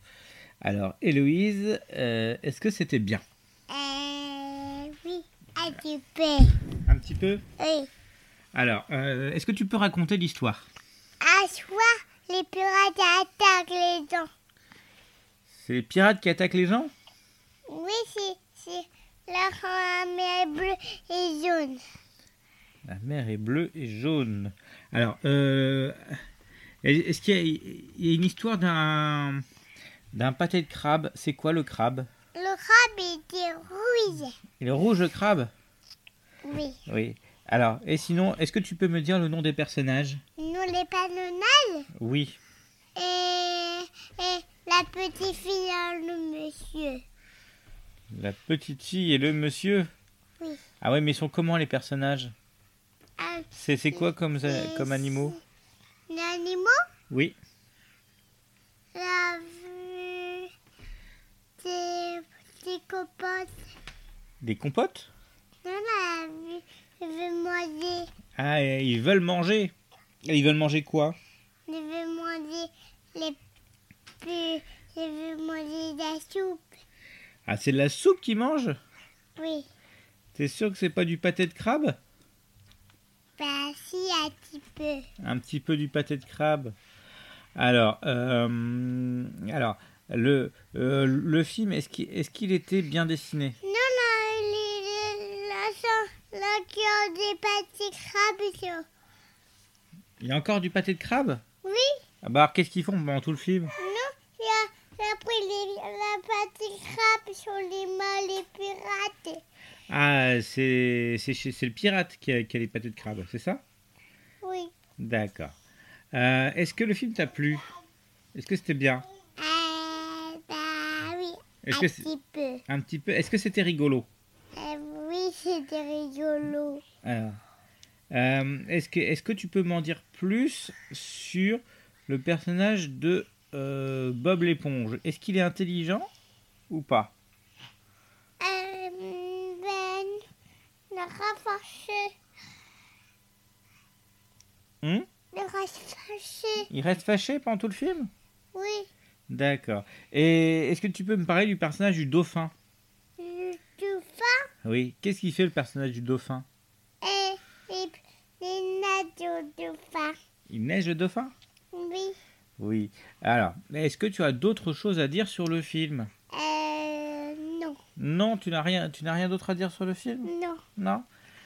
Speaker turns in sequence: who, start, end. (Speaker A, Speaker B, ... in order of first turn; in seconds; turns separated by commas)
Speaker A: 0.6-3.2, Speaker B: 3.7-6.6, Speaker A: 6.8-7.4, Speaker B: 7.6-7.9, Speaker A: 8.5-10.6, Speaker B: 11.2-14.3, Speaker A: 15.5-16.9, Speaker B: 17.7-21.8, Speaker A: 22.9-26.2, Speaker A: 26.8-29.4, Speaker A: 30.1-32.1, Speaker B: 32.3-34.4, Speaker A: 34.6-35.5, Speaker B: 36.4-36.8, Speaker A: 36.9-40.2, Speaker B: 40.4-41.9, Speaker A: 41.9-42.4, Speaker B: 43.0-47.0, Speaker A: 48.1-49.9, Speaker A: 50.8-52.3, Speaker B: 53.2-55.4, Speaker A: 53.5-55.4, Speaker B: 56.1-56.8, Speaker A: 57.1-57.4, Speaker B: 58.9-60.5, Speaker B: 61.6-63.6, Speaker A: 64.4-65.1, Speaker B: 65.6-68.1, Speaker A: 68.3-69.7, Speaker A: 70.2-71.2, Speaker B: 71.7-73.4, Speaker B: 74.2-76.7, Speaker A: 77.5-78.8, Speaker B: 79.4-79.7, Speaker A: 80.3-82.0, Speaker B: 83.4-85.0, Speaker A: 85.2-86.7, Speaker A: 87.5-93.6, Speaker B: 93.6-98.8, Speaker A: 100.2-101.4, Speaker B: 101.6-101.9, Speaker A: 102.2-103.7, Speaker B: 103.8-109.4, Speaker A: 109.9-113.6, Speaker B: 114.4-114.7, Speaker A: 115.0-115.5, Speaker A: 116.1-117.7, Speaker A: 118.3-119.0, Speaker B: 119.4-122.6, Speaker A: 121.6-122.1, Speaker A: 122.7-124.1, Speaker B: 124.5-126.8, Speaker A: 127.0-127.4, Speaker A: 128.1-136.1, Speaker A: 136.7-137.1, Speaker B: 138.4-140.2, Speaker B: 140.9-142.1, Speaker B: 145.3-146.7, Speaker A: 146.7-148.1, Speaker B: 148.5-148.9, Speaker A: 149.3-152.5, Speaker B: 153.2-154.4, Speaker A: 154.6-156.4, Speaker B: 157.0-160.2, Speaker A: 160.5-161.3, Speaker B: 161.7-162.2, Speaker A: 162.6-166.1, Speaker B: 166.3-167.8, Speaker A: 168.0-171.1, Speaker B: 170.2-170.6